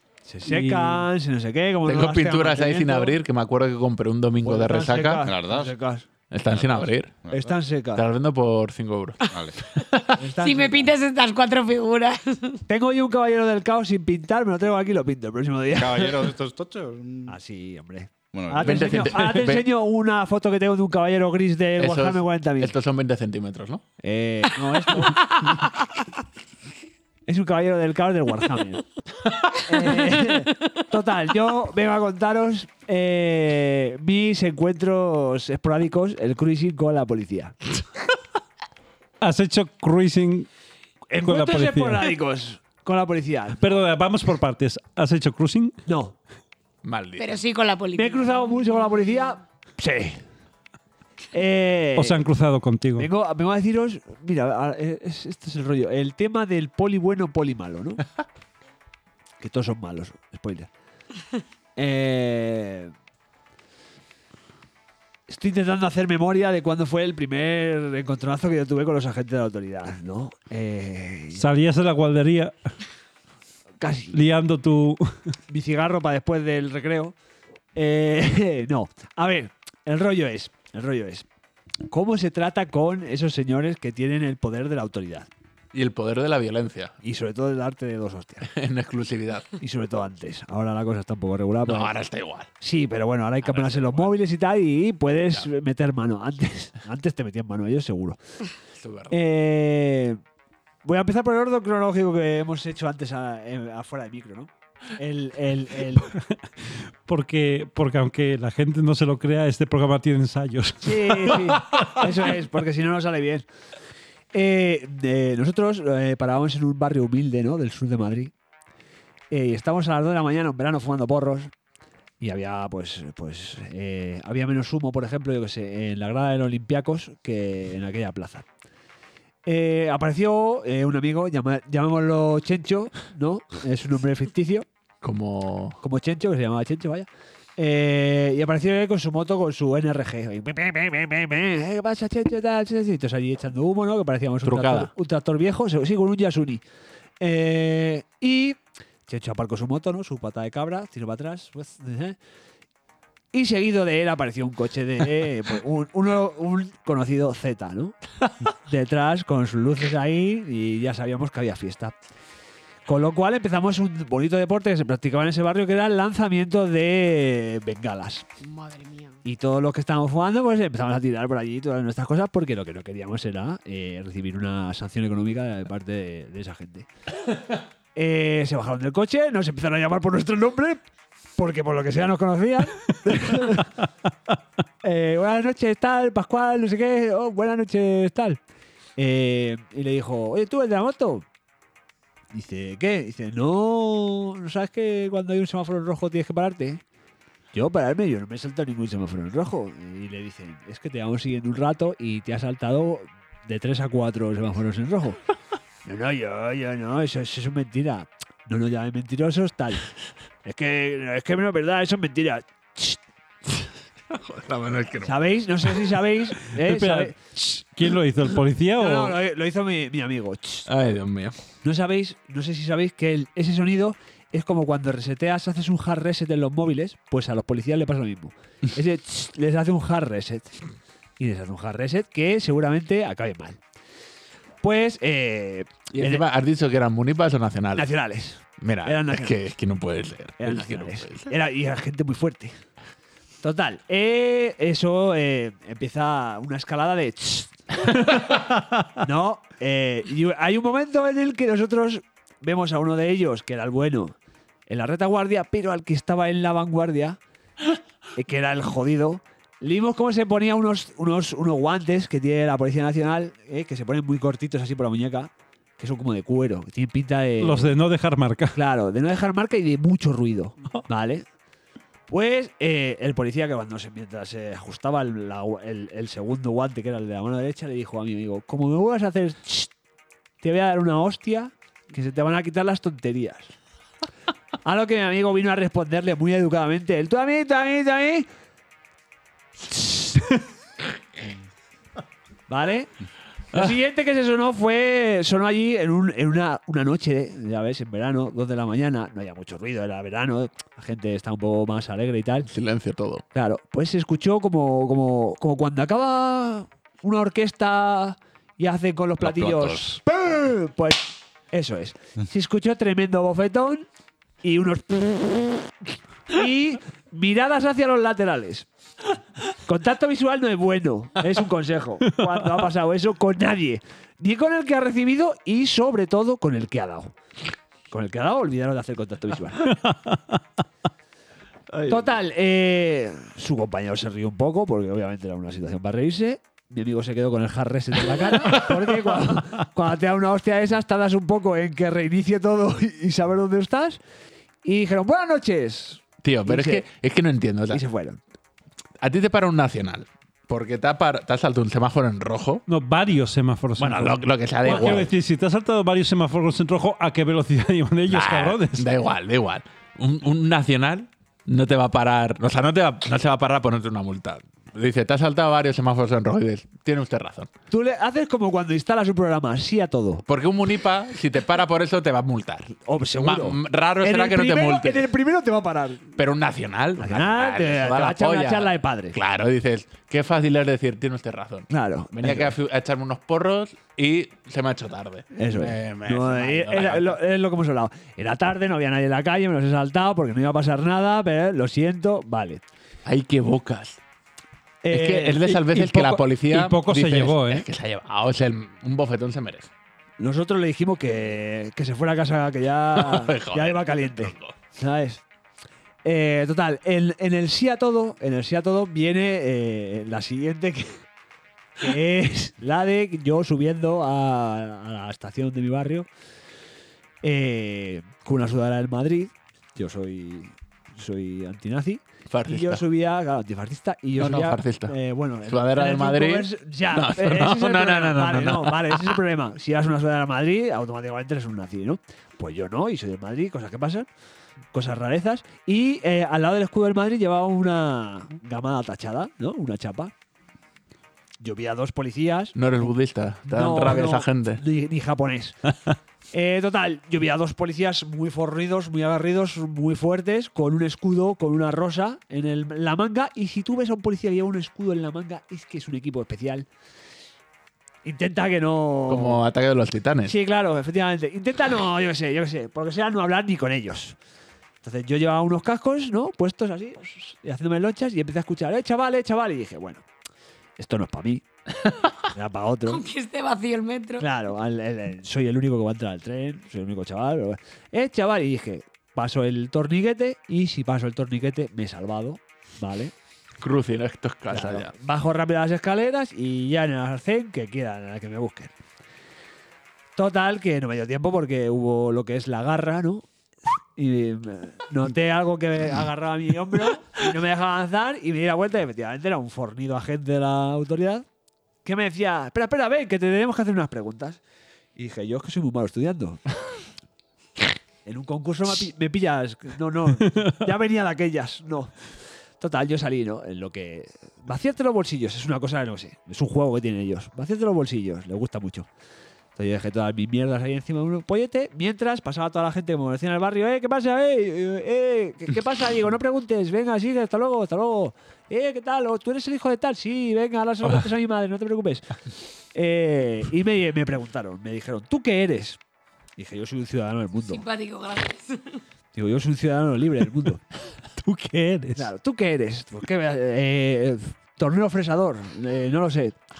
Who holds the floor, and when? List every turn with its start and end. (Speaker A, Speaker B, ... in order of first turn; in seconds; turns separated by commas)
Speaker A: 0.2-3.1, Speaker B: 0.5-1.1, Speaker C: 1.8-5.3, Speaker A: 4.4-6.0, Speaker D: 5.2-5.7, Speaker C: 6.3-7.1, Speaker D: 6.5-7.6, Speaker A: 7.3-8.1, Speaker C: 7.9-10.2, Speaker D: 9.3-9.6, Speaker A: 10.2-10.9, Speaker E: 10.4-12.6, Speaker A: 12.7-16.3, Speaker D: 15.7-17.4, Speaker A: 17.3-22.7, Speaker D: 18.3-19.1, Speaker C: 18.6-19.7, Speaker C: 21.8-23.8, Speaker A: 24.0-25.7, Speaker A: 27.2-28.8, Speaker A: 29.5-37.6, Speaker B: 39.2-40.5, Speaker A: 41.1-43.8, Speaker B: 41.1-42.1, Speaker B: 43.6-45.7, Speaker A: 45.9-46.1, Speaker C: 46.8-47.4, Speaker E: 47.2-49.1, Speaker A: 47.9-50.2, Speaker A: 51.3-52.2, Speaker B: 52.0-53.1, Speaker A: 53.0-58.0, Speaker A: 59.4-60.7, Speaker A: 61.8-62.9, Speaker A: 65.3-71.4, Speaker B: 71.3-72.5, Speaker A: 73.8-74.1, Speaker B: 74.1-75.1, Speaker A: 75.5-77.1, Speaker A: 77.8-81.2, Speaker A: 81.9-85.3, Speaker C: 85.7-86.9, Speaker A: 87.0-88.5, Speaker C: 88.4-89.5, Speaker A: 89.6-91.9, Speaker C: 91.6-92.5, Speaker A: 92.6-98.2, Speaker C: 93.4-94.2, Speaker C: 98.8-99.2, Speaker A: 99.1-100.2, Speaker A: 100.8-106.1, Speaker B: 106.6-112.3, Speaker A: 110.8-113.4, Speaker A: 114.3-118.3, Speaker A: 119.3-121.5, Speaker A: 122.2-128.4, Speaker A: 129.4-134.7, Speaker C: 135.0-135.8, Speaker A: 135.8-146.6, Speaker C: 144.4-144.9, Speaker A: 147.2-152.2, Speaker A: 153.3-158.0, Speaker A: 158.5-161.9, Speaker A: 162.8-168.2, Speaker E: 168.4-169.2, Speaker A: 169.2-176.9, Speaker A: 177.9-180.8, Speaker A: 181.4-183.7, Speaker A: 184.8-188.4, Speaker A: 189.0-191.2, Speaker A: 192.3-196.8, Speaker A: 197.5-205.2, Speaker A: 205.8-209.9, Speaker A: 210.4-213.0, Speaker C: 214.1-215.9, Speaker A: 215.0-217.1, Speaker B: 216.5-219.2, Speaker A: 218.8-220.7, Speaker C: 220.7-221.3, Speaker A: 221.6-230.6, Speaker A: 231.2-233.6, Speaker A: 234.6-236.2, Speaker C: 235.9-237.9, Speaker A: 237.7-239.3, Speaker C: 238.6-241.3, Speaker A: 240.4-242.5, Speaker A: 243.4-254.2, Speaker A: 254.7-257.2, Speaker A: 258.1-267.7, Speaker B: 267.4-268.6, Speaker A: 268.5-271.2, Speaker A: 272.1-279.7, Speaker A: 280.4-283.5, Speaker A: 284.6-288.3, Speaker A: 289.6-290.4, Speaker A: 292.5-292.9, Speaker A: 293.5-302.5, Speaker C: 302.4-303.2, Speaker A: 303.3-313.9, Speaker D: 309.3-309.8, Speaker A: 314.4-315.7, Speaker A: 316.3-318.7, Speaker A: 319.5-327.1, Speaker A: 327.9-329.8, Speaker B: 329.7-330.3, Speaker A: 331.9-344.0, Speaker A: 344.6-346.9, Speaker C: 346.2-347.8, Speaker A: 347.7-348.2, Speaker C: 349.0-352.6, Speaker B: 352.7-358.9, Speaker C: 353.8-355.1, Speaker A: 354.7-355.1, Speaker C: 358.1-367.5, Speaker A: 367.7-370.2, Speaker C: 370.3-375.1, Speaker A: 372.9-376.0, Speaker C: 376.1-387.2, Speaker A: 377.0-379.2, Speaker A: 381.7-382.5, Speaker A: 385.3-392.6, Speaker C: 393.0-394.0, Speaker A: 394.8-395.6, Speaker C: 394.9-399.7, Speaker B: 395.5-397.7, Speaker A: 400.2-405.2, Speaker C: 402.9-404.6, Speaker A: 406.0-411.0, Speaker A: 411.8-416.1, Speaker A: 417.2-434.1, Speaker C: 422.3-422.8, Speaker C: 424.2-429.2, Speaker A: 434.7-440.1, Speaker A: 441.4-442.6, Speaker C: 442.5-444.6, Speaker A: 443.5-445.7, Speaker A: 446.3-456.7, Speaker A: 458.0-459.4, Speaker C: 459.1-460.4, Speaker A: 460.2-464.2, Speaker A: 464.8-470.0, Speaker A: 470.8-471.4, Speaker A: 472.2-473.0, Speaker E: 472.9-474.3, Speaker A: 474.2-483.1, Speaker C: 483.6-484.9, Speaker A: 484.5-488.7, Speaker A: 490.1-493.2, Speaker A: 493.9-501.2, Speaker A: 501.8-504.4, Speaker A: 504.9-506.6, Speaker A: 508.0-511.9, Speaker A: 512.6-518.9, Speaker A: 519.5-532.2, Speaker A: 532.7-535.8, Speaker A: 536.4-537.6, Speaker E: 537.4-538.8, Speaker A: 539.1-540.6, Speaker B: 541.2-542.1, Speaker A: 542.0-546.3